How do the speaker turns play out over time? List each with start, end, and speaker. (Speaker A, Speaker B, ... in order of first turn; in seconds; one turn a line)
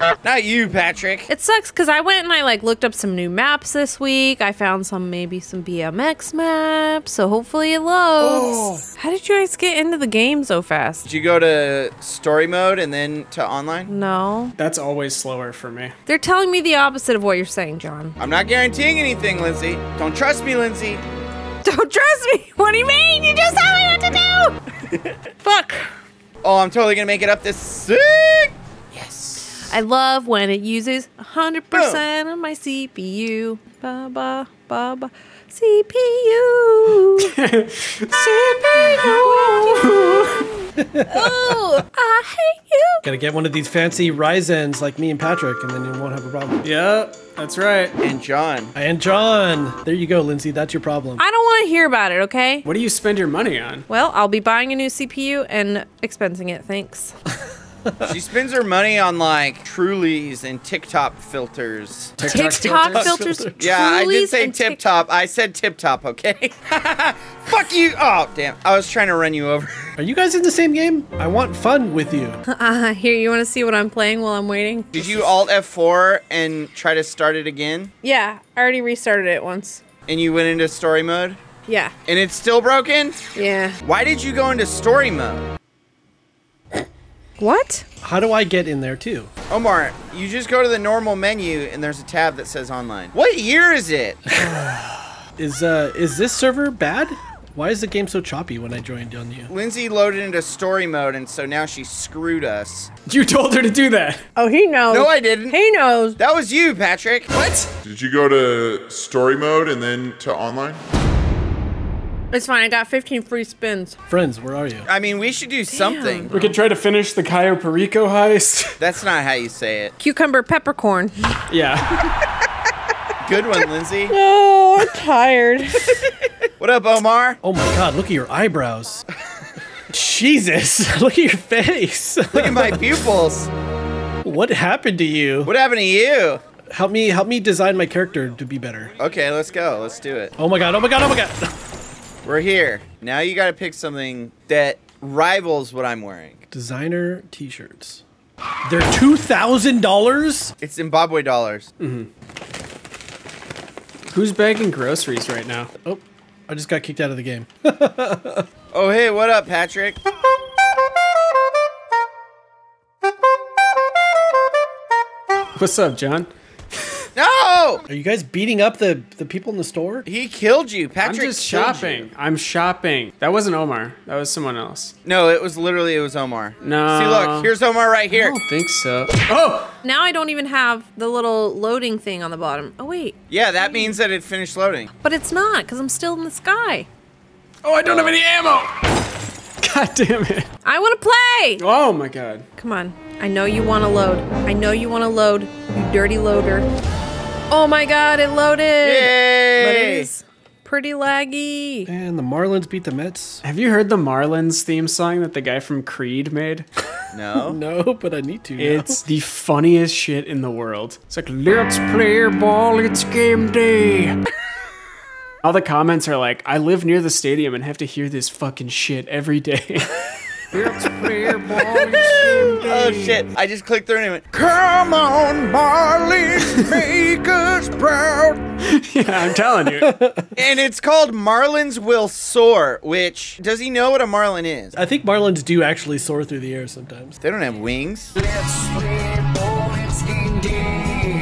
Speaker A: 0.2-1.3
Speaker B: 1.3-11.1
Speaker A: 8.2-8.8
Speaker A: 11.1-13.9
Speaker B: 13.9-14.6
Speaker C: 14.6-15.9
Speaker B: 16.1-18.2
Speaker A: 18.2-21.0
Speaker B: 21.6-24.6
Speaker B: 25.4-25.9
Speaker A: 26.4-29.5
Speaker B: 29.6-37.4
Speaker A: 31.7-32.0
Speaker C: 37.2-40.6
Speaker B: 38.1-40.0
Speaker D: 40.8-41.6
Speaker B: 41.1-43.0
Speaker D: 43.0-46.6
Speaker C: 46.6-48.0
Speaker A: 48.0-48.7
Speaker D: 48.8-51.2
Speaker B: 51.2-52.6
Speaker C: 52.6-53.9
Speaker B: 53.9-57.1
Speaker D: 57.9-58.2
Speaker A: 58.1-62.2
Speaker D: 62.2-63.8
Speaker C: 62.2-63.2
Speaker B: 62.3-64.8
Speaker A: 63.6-69.9
Speaker D: 70.0-72.4
Speaker B: 72.5-75.4
Speaker A: 74.9-77.9
Speaker B: 78.0-79.8
Speaker A: 80.1-81.4
Speaker B: 81.7-81.9
Speaker A: 82.1-83.2
Speaker B: 83.3-83.8
Speaker A: 83.8-85.5
Speaker B: 87.4-87.8
Speaker D: 88.0-89.3
Speaker A: 89.5-94.2
Speaker D: 94.3-94.5
Speaker C: 94.4-95.1
Speaker D: 95.4-99.5
Speaker A: 99.5-102.9
Speaker C: 103.1-104.2
Speaker B: 104.4-106.2
Speaker A: 104.9-105.6
Speaker A: 106.2-107.3
Speaker C: 107.4-107.7
Speaker E: 107.8-110.8
Speaker B: 112.3-114.0
Speaker D: 114.1-114.9
Speaker A: 114.9-116.4
Speaker B: 115.7-116.4
Speaker C: 116.3-118.8
Speaker A: 118.8-119.9
Speaker B: 120.0-121.5
Speaker C: 121.5-122.1
Speaker A: 123.2-124.2
Speaker B: 123.4-126.1
Speaker A: 126.6-127.4
Speaker D: 127.4-129.0
Speaker D: 129.9-133.0
Speaker A: 132.4-133.5
Speaker D: 134.2-135.5
Speaker A: 135.5-136.4
Speaker D: 136.7-138.9
Speaker A: 139.0-140.3
Speaker D: 140.4-141.5
Speaker A: 142.2-146.4
Speaker D: 146.5-148.0
Speaker D: 148.7-150.5
Speaker A: 150.6-151.7
Speaker C: 151.8-152.1
Speaker C: 154.1-155.7
Speaker D: 155.8-158.5
Speaker A: 158.7-160.0
Speaker C: 165.6-166.3
Speaker A: 167.2-167.8
Speaker D: 167.9-170.1
Speaker A: 170.1-172.1
Speaker C: 171.0-174.9
Speaker A: 175.1-178.4
Speaker C: 176.6-177.5
Speaker C: 178.1-179.7
Speaker B: 179.8-184.0
Speaker A: 183.3-184.9
Speaker B: 185.0-186.9
Speaker C: 187.6-188.7
Speaker A: 187.8-188.2
Speaker C: 189.6-190.5
Speaker B: 190.6-191.6
Speaker C: 191.6-192.4
Speaker B: 192.6-196.7
Speaker B: 197.5-201.9
Speaker A: 198.8-200.1
Speaker D: 201.9-203.4
Speaker C: 203.4-206.7
Speaker A: 207.1-207.6
Speaker D: 207.3-209.0
Speaker C: 208.6-214.2
Speaker C: 215.4-223.2
Speaker A: 221.7-228.4
Speaker C: 228.6-229.9
Speaker D: 229.8-230.3
Speaker A: 230.4-234.8
Speaker D: 234.7-237.2
Speaker A: 237.2-238.1